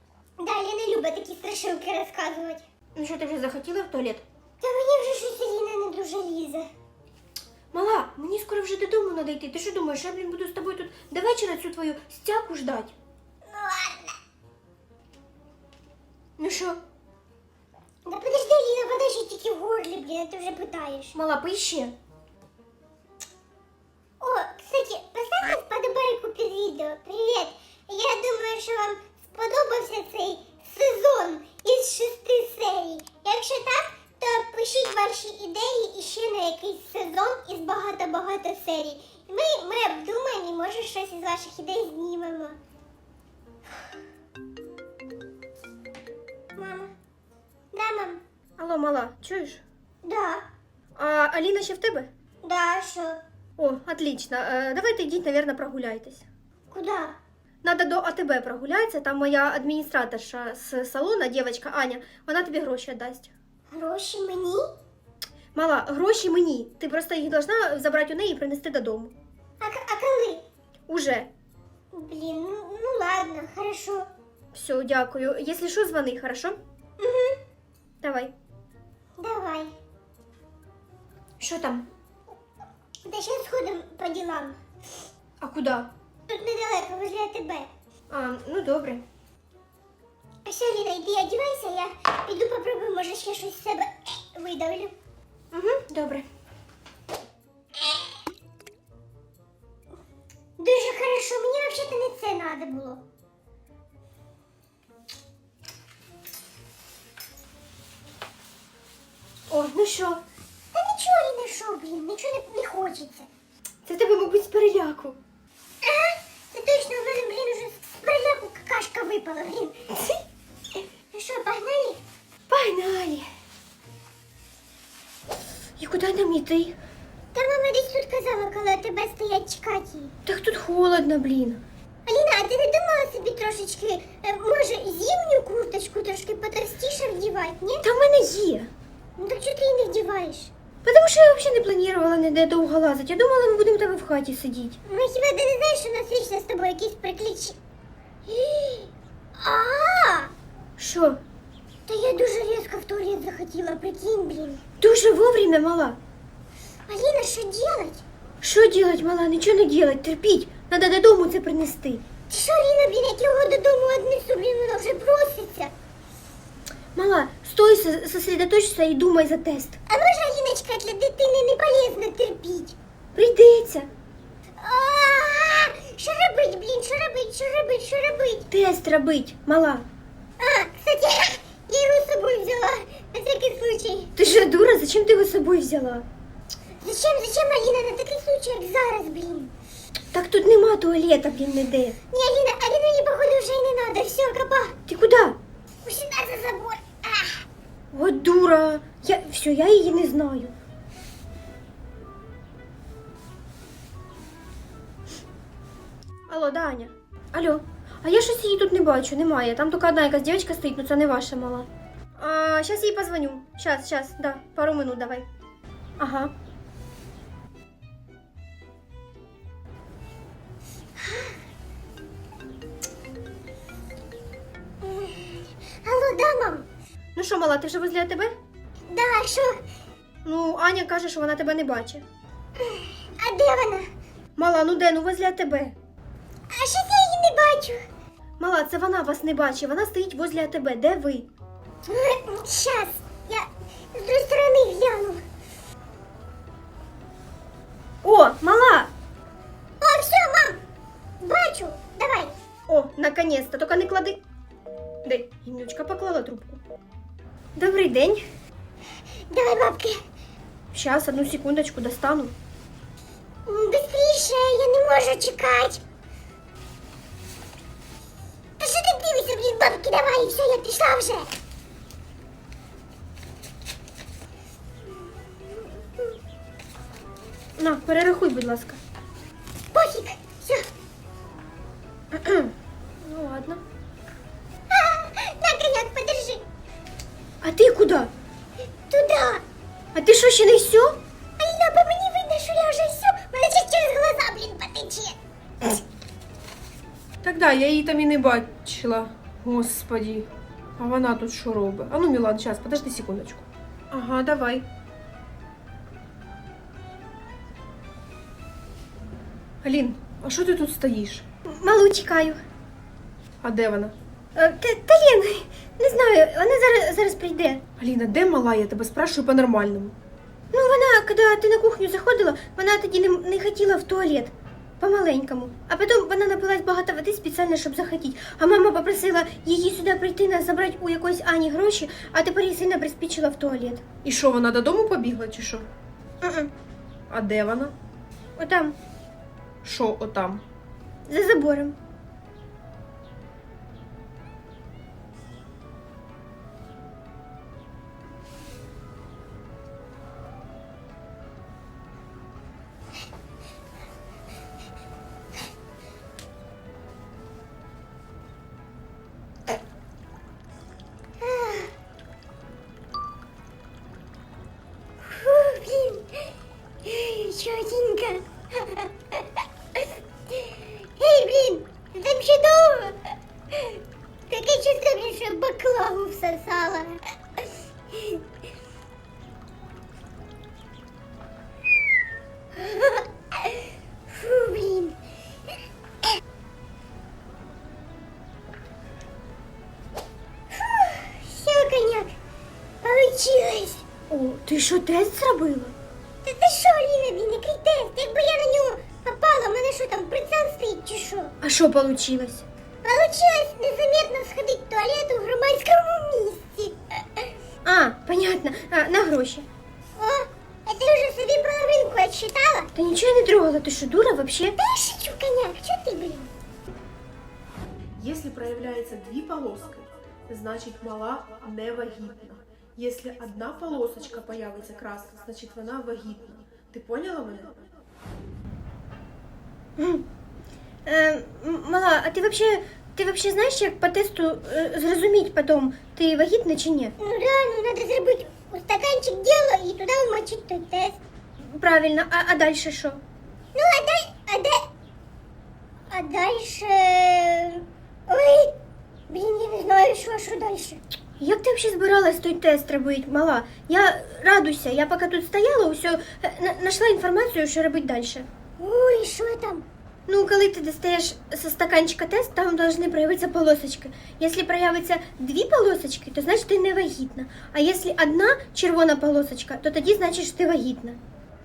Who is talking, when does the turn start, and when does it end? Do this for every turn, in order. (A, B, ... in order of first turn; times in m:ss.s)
0:00.4-0:02.6 A
0:03.0-0:04.2 B
0:04.6-0:06.7 A
0:07.7-0:12.9 B
0:13.4-0:14.2 A
0:16.4-0:16.8 B
0:18.0-0:21.2 A
0:21.1-0:21.9 B
0:24.2-0:42.6 A
0:46.6-0:46.9 A
0:47.7-0:48.2 A
0:48.6-0:49.6 B
0:50.0-0:50.4 A
0:51.0-0:52.1 B
0:52.4-0:53.2 A
0:53.6-0:56.3 B
0:56.7-0:57.2 A
0:57.6-1:03.3 B
1:03.7-1:04.6 A
1:05.5-1:09.1 B
1:09.6-1:10.4 A
1:10.9-1:11.3 B
1:11.9-1:14.1 A
1:14.5-1:16.6 B
1:17.0-1:17.4 A
1:18.0-1:18.3 B
1:19.2-1:19.7 A
1:21.4-1:21.8 B
1:23.1-1:24.6 A
1:25.4-1:25.9 B
1:26.3-1:27.7 A
1:28.1-1:29.0 B
1:30.4-1:35.0 A
1:35.5-1:36.3 B
1:40.6-1:43.0 A
1:49.5-1:50.2 B
1:50.7-1:53.3 A
1:53.8-1:55.2 B
1:55.8-2:00.1 A
2:01.1-2:02.0 A
2:02.5-2:03.2 B
2:05.8-2:06.8 B
2:07.3-2:10.1 A
2:10.3-2:11.6 B
2:12.1-2:17.8 A
2:17.8-2:18.7 B
2:19.2-2:20.5 A
2:20.8-2:24.8 B
2:24.9-2:27.6 A
2:28.3-2:30.3 A
2:30.8-2:31.2 B
2:31.9-2:34.6 A
2:34.8-2:36.0 B
2:36.9-2:38.0 A
2:38.4-2:42.1 B
2:42.3-2:45.7 A
2:47.0-2:49.8 B
2:49.9-2:52.8 A
2:53.2-2:53.9 B
2:54.6-2:58.5 A
2:58.5-2:59.9 B
3:00.4-3:04.1 A
3:04.2-3:06.0 B
3:06.8-3:09.5 A
3:10.1-3:12.0 B
3:12.1-3:14.8 A
3:14.9-3:15.4 B
3:15.8-3:17.4 A
3:17.9-3:20.5 B
3:26.3-3:35.3 B
3:36.0-3:36.3 B
3:41.0-3:41.3 A
3:44.8-3:46.7 A
3:47.2-3:48.3 B
3:48.9-3:49.6 A
3:50.2-3:52.0 B
3:52.6-3:53.9 A
3:54.4-3:55.8 B
3:56.5-3:57.8 A
3:58.4-4:01.3 B
4:01.9-4:05.2 A
4:08.0-4:08.9 B
4:09.8-4:10.6 A
4:11.2-4:12.4 A
4:12.7-4:14.2 B
4:15.0-4:16.6 B
4:17.6-4:18.3 B
4:19.3-4:20.0 A
4:20.7-4:22.4 B
4:23.5-4:25.8 A
4:28.6-4:31.3 A
4:37.6-4:38.8 B
4:39.7-4:40.7 A
4:42.1-4:43.6 B
4:44.7-4:46.4 A
4:47.4-4:48.1 B
4:48.9-4:49.4 A
4:49.9-4:51.0 B
4:51.4-4:55.2 A
4:57.2-5:04.7 C
5:09.6-5:11.2 C
5:11.5-5:12.4 B
5:13.4-5:13.9 C
5:14.4-5:17.6 B
5:17.8-5:20.0 C
5:20.5-5:33.9 B
5:34.0-5:35.7 C
5:36.2-5:36.5 B
5:37.1-5:37.7 C
5:38.4-5:38.8 B
5:39.6-5:40.4 C
5:41.1-5:41.8 B
6:01.2-6:01.7 A
6:05.0-6:06.3 A
6:06.8-6:13.0 A
6:13.5-6:17.0 A
6:17.9-6:18.2 A
6:22.6-6:25.0 A
6:30.5-6:32.1 A
6:32.8-6:33.8 A
6:34.1-6:35.7 B
6:36.2-6:41.3 A
6:41.4-6:42.4 B
6:42.8-6:47.3 A
6:47.6-6:49.5 B
6:50.0-6:52.7 A
6:52.7-6:54.6 B
6:54.6-6:56.3 A
6:58.0-7:07.5 C
7:09.8-7:10.0 B
7:10.9-7:17.0 B
7:17.0-7:21.0 A
7:21.5-7:23.0 B
7:23.5-7:24.6 A
7:25.9-7:28.5 A
7:29.1-7:30.8 A
7:31.2-7:38.3 B
7:38.6-7:39.6 A
7:40.1-7:51.0 B